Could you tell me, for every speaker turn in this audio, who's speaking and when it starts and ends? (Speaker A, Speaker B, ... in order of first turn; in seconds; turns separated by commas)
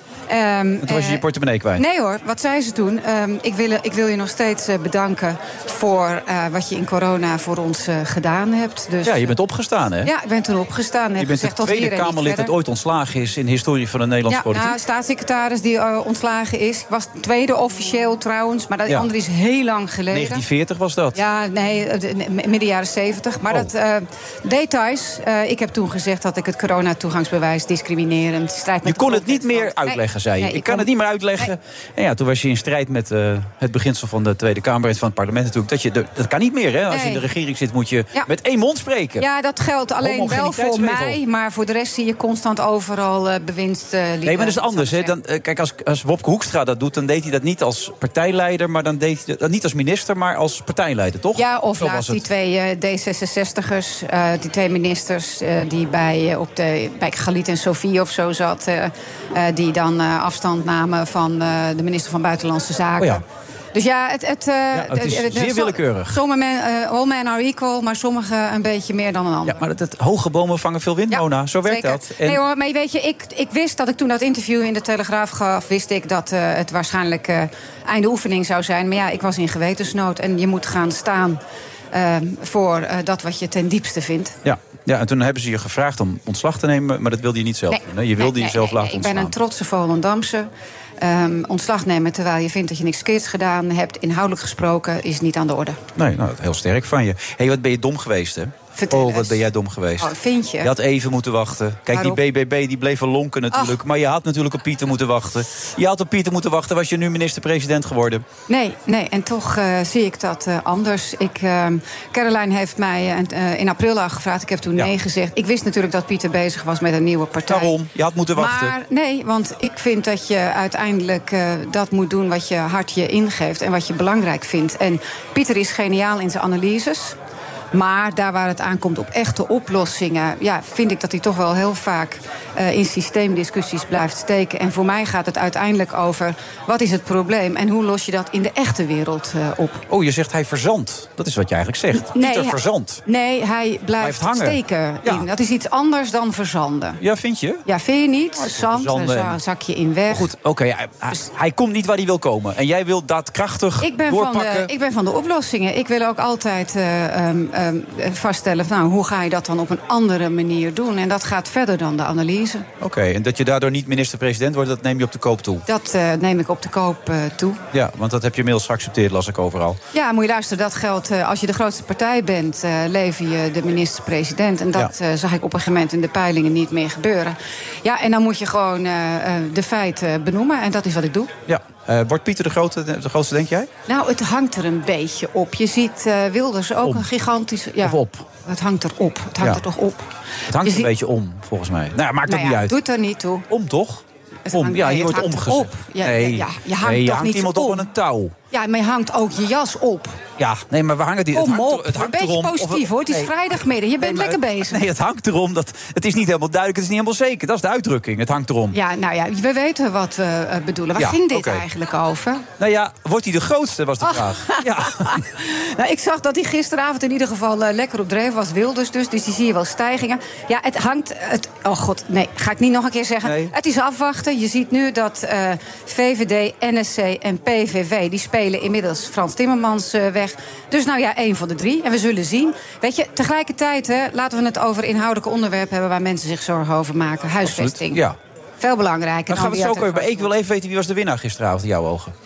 Speaker A: 0.3-1.2, Speaker B: 0.8-1.8, Speaker A: 1.8-9.4, Speaker B: 9.0-10.1, Speaker A: 10.0-12.5, Speaker B: 11.2-14.8, Speaker A: 14.3-20.4, Speaker B: 20.1-21.2, Speaker A: 21.1-30.9, Speaker B: 28.8-39.2, Speaker A: 36.9-37.2, Speaker A: 39.2-45.1, Speaker B: 40.0-41.2, Speaker B: 44.2-52.2, Speaker A: 51.3-63.2, Speaker A: 63.7-69.6, Speaker B: 64.7-66.2, Speaker B: 69.5-72.4, Speaker A: 71.1-81.4, Speaker A: 81.9-84.3, Speaker B: 84.4-89.3, Speaker A: 87.7-90.5, Speaker A: 91.0-95.8, Speaker B: 96.0-108.2, Speaker A: 98.8-99.4, Speaker A: 100.0-100.7, Speaker A: 101.9-102.2, Speaker A: 108.5-117.8, Speaker B: 117.5-118.7, Speaker A: 118.3-127.2, Speaker A: 127.7-139.8, Speaker B: 139.9-143.0, Speaker A: 141.9-147.0, Speaker B: 144.0-145.2, Speaker B: 147.0-147.6, Speaker A: 147.7-150.3, Speaker B: 148.4-149.3, Speaker B: 150.1-154.7, Speaker A: 153.8-162.7, Speaker B: 162.8-165.6, Speaker A: 165.7-167.6, Speaker B: 167.7-169.8, Speaker A: 169.9-181.3, Speaker B: 181.5-183.7, Speaker A: 183.9-190.1, Speaker B: 187.8-188.2, Speaker B: 190.5-192.8, Speaker A: 190.6-190.9, Speaker A: 192.3-193.5, Speaker B: 193.5-198.3, Speaker A: 194.4-197.9, Speaker A: 198.5-200.2, Speaker B: 200.4-203.3, Speaker A: 201.3-204.8, Speaker B: 204.0-208.8, Speaker A: 208.7-212.4, Speaker B: 211.0-211.6, Speaker B: 212.6-215.2, Speaker A: 214.0-238.0, Speaker B: 223.2-223.5, Speaker B: 237.4-238.2, Speaker A: 238.6-240.3, Speaker B: 239.3-242.1